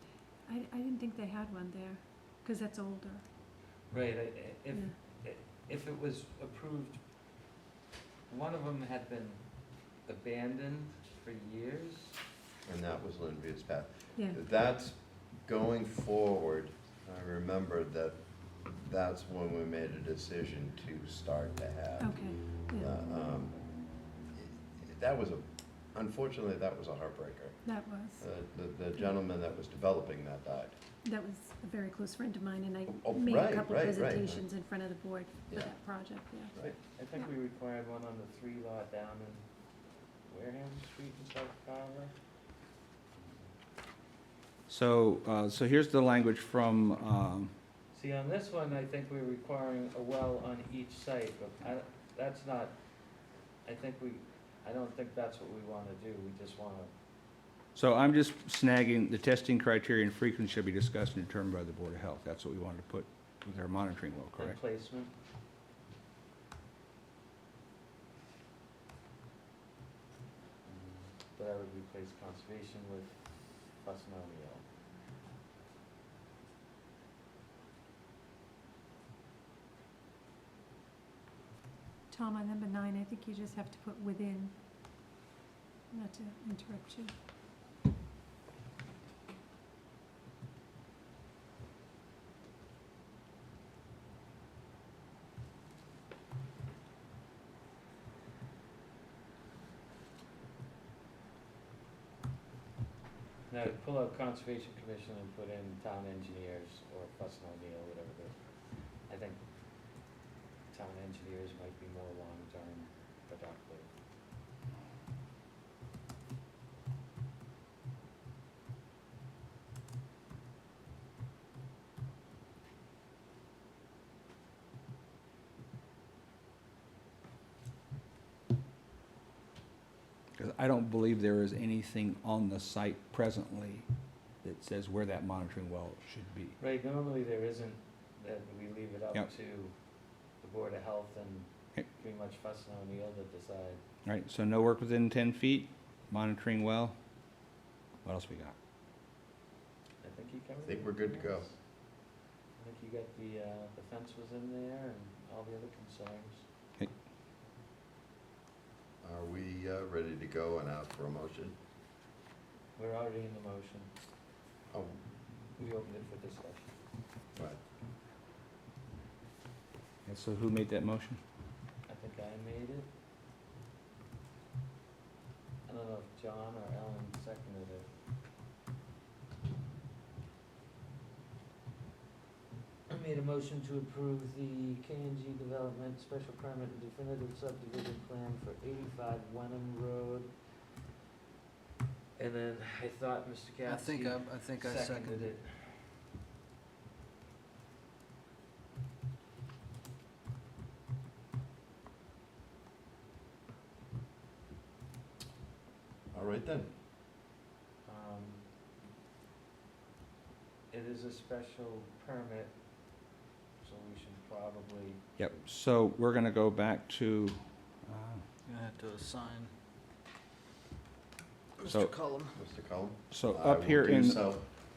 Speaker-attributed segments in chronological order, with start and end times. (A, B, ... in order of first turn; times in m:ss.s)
0:00.5-0:03.2 A
0:03.9-0:07.0 B
0:08.3-0:09.4 B
0:10.0-0:12.2 B
0:12.6-0:23.6 C
0:22.0-0:22.9 A
0:24.3-0:27.6 C
0:27.6-0:28.2 A
0:28.2-0:30.7 C
0:31.0-0:36.5 A
0:32.9-0:34.4 C
0:35.5-0:35.8 C
0:36.4-0:36.8 C
0:36.9-0:39.4 B
0:40.2-0:42.1 B
0:44.7-0:47.5 D
0:47.9-0:52.8 B
0:53.6-0:56.9 B
0:57.7-1:04.6 D
1:04.4-1:05.1 B
1:10.6-1:14.6 B
1:22.1-1:24.5 A
1:25.9-1:27.1 A
1:43.5-1:49.4 B
1:50.7-1:53.9 B
2:10.4-2:13.9 D
2:14.4-2:16.6 D
2:16.6-2:19.7 B
2:20.4-2:23.8 B
2:24.0-2:27.0 D
2:28.0-2:28.5 D
2:30.0-2:31.6 B
2:30.6-2:31.4 C
2:32.6-2:36.4 B
2:39.0-2:41.6 C
2:42.8-2:43.9 B
2:44.7-2:45.0 C
2:45.6-2:46.7 B
2:50.0-2:51.2 D
2:51.9-2:52.9 B
2:55.7-2:57.9 B
3:02.9-3:10.3 B
3:12.2-3:15.8 B
3:13.6-3:15.3 E
3:26.1-3:26.7 C
3:27.8-3:28.4 B
3:30.7-3:32.5 B
3:33.6-3:35.4 B
3:35.2-3:38.2 D
3:38.4-3:39.5 E
3:41.6-3:42.4 E
3:41.7-3:41.9 D
3:42.3-3:44.4 C
3:43.1-3:44.3 D